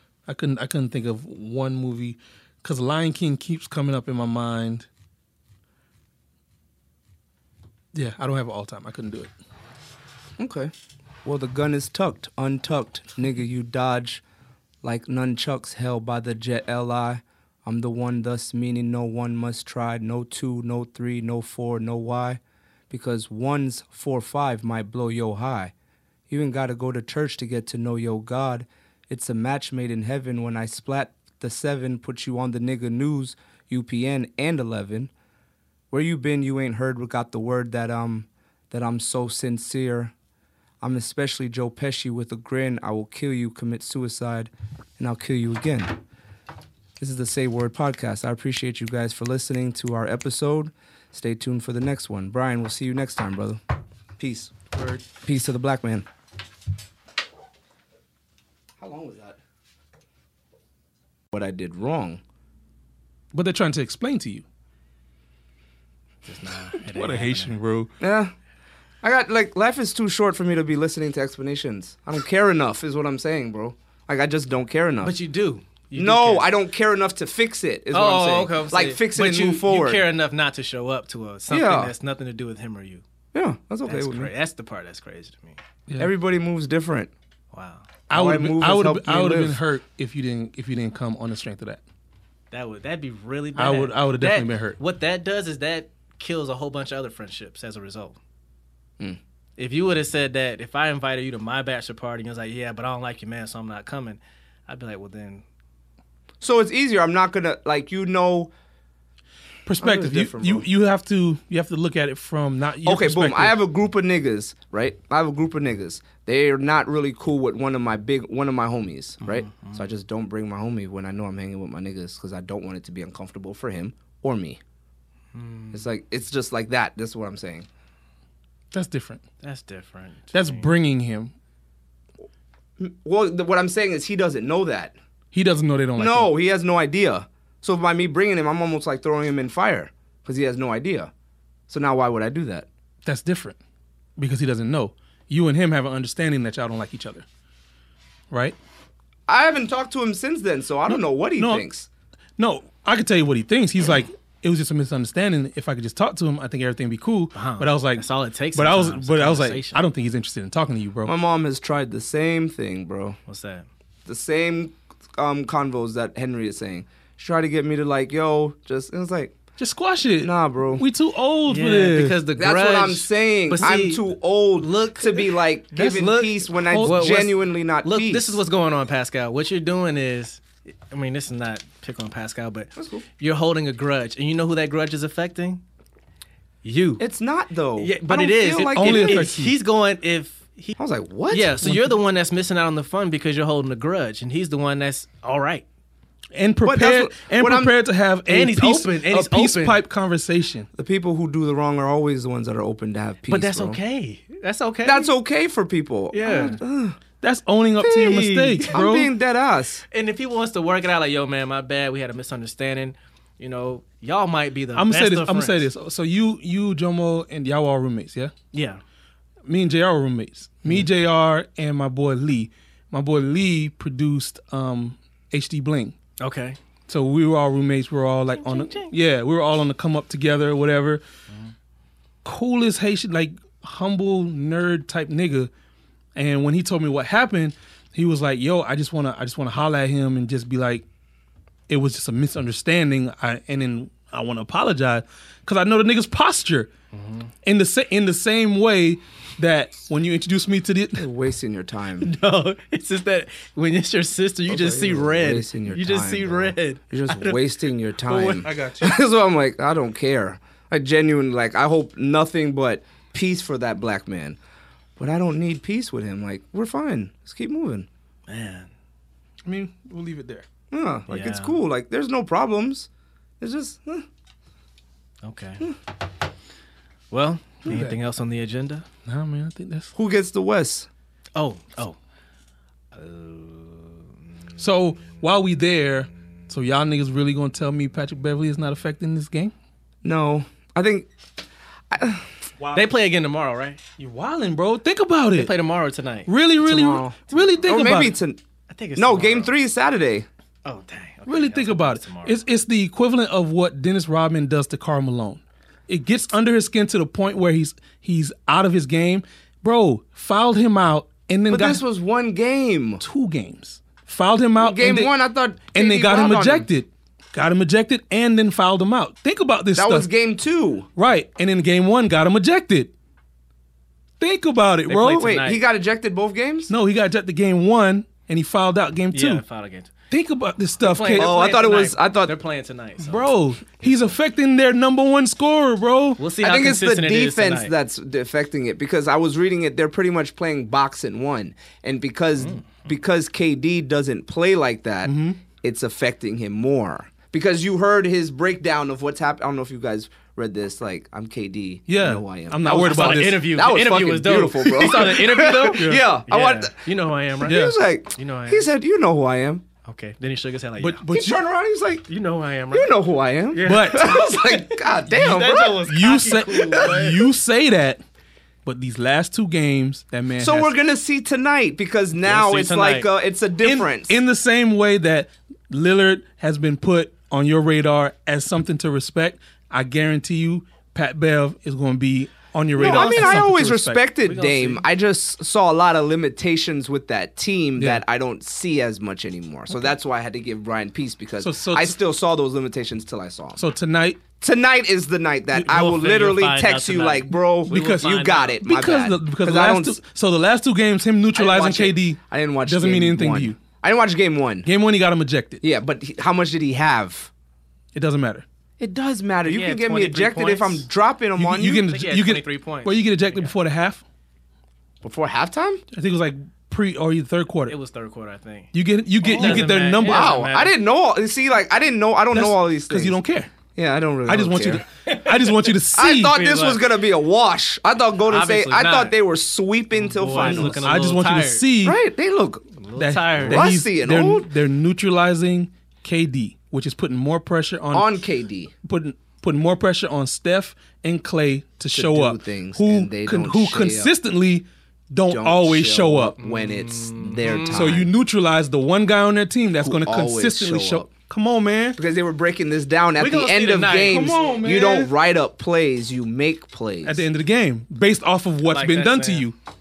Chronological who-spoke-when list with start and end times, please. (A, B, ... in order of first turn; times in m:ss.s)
0:00.3-0:04.9 A
0:07.9-0:09.3 A
0:10.4-0:10.7 B
0:11.2-0:14.2 B
0:14.8-0:25.7 B
0:26.3-0:35.1 B
0:35.9-0:40.1 B
0:40.8-0:46.0 B
0:47.0-0:53.6 B
0:54.2-0:54.5 B
0:54.7-0:55.0 A
0:55.1-0:56.1 B
0:58.8-0:59.4 B
1:01.3-1:02.2 B
1:03.3-1:04.4 A
1:06.2-1:07.6 C
1:06.7-1:07.9 A
1:08.0-1:08.3 B
1:09.0-1:15.1 B
1:15.0-1:16.5 C
1:16.0-1:20.1 B
1:17.9-1:23.0 C
1:21.5-1:21.9 B
1:23.3-1:24.3 B
1:23.9-1:25.6 C
1:25.9-1:26.1 A
1:26.0-1:27.1 B
1:27.5-1:27.9 C
1:28.1-1:31.8 A
1:28.1-1:29.6 B
1:32.5-1:38.2 C
1:33.6-1:34.8 A
1:39.6-1:45.4 C
1:46.4-1:48.5 B
1:49.7-1:53.6 A
1:49.8-1:50.7 B
1:52.8-2:04.6 B
1:59.3-1:59.8 C
2:05.3-2:05.8 C
2:05.7-2:07.7 B
2:08.7-2:09.2 A
2:09.4-2:10.7 C
2:10.3-2:11.3 A
2:12.8-2:15.0 B
2:15.3-2:16.3 A
2:16.0-2:21.1 B
2:21.7-2:22.7 B
2:23.0-2:23.6 A
2:24.2-2:27.2 A
2:28.3-2:28.6 A
2:29.3-2:31.9 B
2:30.9-2:31.7 A
2:32.4-2:41.1 A
2:37.3-2:39.8 C
2:41.0-2:43.2 B
2:43.3-2:43.7 C
2:44.1-2:49.4 B
2:49.6-2:52.2 A
2:50.2-2:50.8 B
2:51.5-2:54.0 C
2:52.4-2:58.4 B
2:54.6-3:05.6 C
2:56.6-2:57.3 A
3:02.8-3:03.0 B
3:06.6-3:07.0 C
3:07.0-3:09.3 B
3:07.8-3:10.8 C
3:08.7-3:09.6 A
3:10.8-3:11.6 B
3:11.3-3:15.6 C
3:11.6-3:12.0 A
3:16.3-3:20.7 A
3:16.6-3:17.8 B
3:18.3-3:19.8 C
3:20.8-3:23.8 B
3:23.3-3:25.1 C
3:24.8-3:27.0 B
3:26.1-3:26.6 C
3:27.2-3:29.1 A
3:27.8-3:28.8 C
3:28.7-3:29.8 B
3:29.9-3:35.6 C
3:34.8-3:38.3 A
3:38.5-3:38.8 C
3:39.5-3:46.0 A
3:46.2-3:46.6 C
3:46.9-3:51.0 A
3:48.4-3:48.9 C
3:52.2-3:55.5 A
3:56.2-4:00.8 A
4:01.7-4:06.7 A
4:06.9-4:07.3 C
4:07.4-4:11.1 A
4:11.0-4:12.1 B
4:12.0-4:18.4 C
4:14.5-4:24.4 B
4:18.4-4:19.0 A
4:25.0-4:27.9 B
4:28.3-4:28.7 C
4:29.4-4:30.5 A
4:30.7-4:32.9 B
4:31.1-4:31.6 C
4:33.4-4:34.1 B
4:35.2-4:35.7 C
4:37.1-4:38.9 C
4:37.6-4:38.0 A
4:39.0-4:39.9 A
4:40.0-4:40.9 B
4:41.4-4:42.0 C
4:42.9-4:44.0 C
4:44.6-4:49.5 A
4:50.0-4:51.1 B
4:51.9-4:52.3 B
4:52.6-4:52.9 A
4:52.7-4:53.8 C
4:54.0-4:55.5 A
4:55.4-4:56.3 C
4:56.3-4:58.2 A
4:56.6-4:58.4 B
4:58.7-4:59.5 C
4:59.0-5:00.3 B
5:00.6-5:02.4 C
5:01.3-5:11.8 A
5:11.5-5:13.0 B
5:13.0-5:15.2 A
5:14.6-5:16.7 B
5:15.7-5:20.1 A
5:19.8-5:20.9 B
5:21.0-5:22.9 A
5:24.2-5:25.3 A
5:24.9-5:25.6 C
5:25.0-5:26.7 B
5:26.7-5:29.4 A
5:29.1-5:29.9 C
5:30.1-5:31.4 A
5:30.8-5:33.3 C
5:31.1-5:32.4 B
5:33.0-5:36.2 A
5:36.2-5:37.7 C
5:36.4-5:56.9 B
5:45.0-5:45.4 A
5:51.9-5:53.6 A
5:52.6-5:58.6 C
5:54.8-5:56.1 A
5:57.4-5:59.6 B
5:57.4-5:57.8 A
5:59.8-6:01.0 C
6:00.8-6:01.4 A
6:01.1-6:02.1 B
6:02.1-6:02.9 C
6:02.7-6:05.9 B
6:03.5-6:07.2 C
6:03.6-6:04.2 A
6:05.8-6:08.0 A
6:08.6-6:10.8 A
6:10.4-6:14.2 B
6:12.2-6:13.1 C
6:13.6-6:24.0 A
6:22.8-6:23.6 C
6:22.8-6:33.6 B
6:24.2-6:24.8 C
6:27.8-6:28.0 A
6:31.4-6:32.0 A
6:33.6-6:34.2 A
6:34.4-6:40.0 B
6:35.5-6:38.6 C
6:37.7-6:43.6 A
6:41.4-6:44.7 B
6:44.6-6:45.6 A
6:45.6-6:47.3 B
6:47.9-6:48.5 A
6:48.8-6:51.9 B
6:49.4-6:50.9 C
6:51.4-6:54.0 A
6:51.7-6:53.5 C
6:55.0-6:55.8 B
6:55.9-6:57.8 A
6:57.7-7:00.7 C
6:58.7-7:00.4 A
6:59.3-7:03.2 B
7:02.3-7:03.5 A
7:03.8-7:04.8 B
7:04.3-7:06.4 A
7:05.1-7:06.8 C
7:05.9-7:10.9 B
7:08.3-7:09.1 C
7:10.0-7:11.7 C
7:10.4-7:12.0 A
7:11.8-7:12.6 B
7:12.8-7:13.7 C
7:13.0-7:18.2 A
7:13.4-7:14.5 B
7:17.9-7:18.7 B
7:18.8-7:26.4 A
7:21.9-7:24.1 B
7:25.3-7:28.1 B
7:26.4-7:28.0 C
7:27.7-7:32.0 A
7:29.8-7:31.1 B
7:32.0-7:37.2 B
7:33.2-7:34.6 C
7:34.0-7:35.2 A
7:37.0-7:39.6 A
7:38.6-7:39.5 C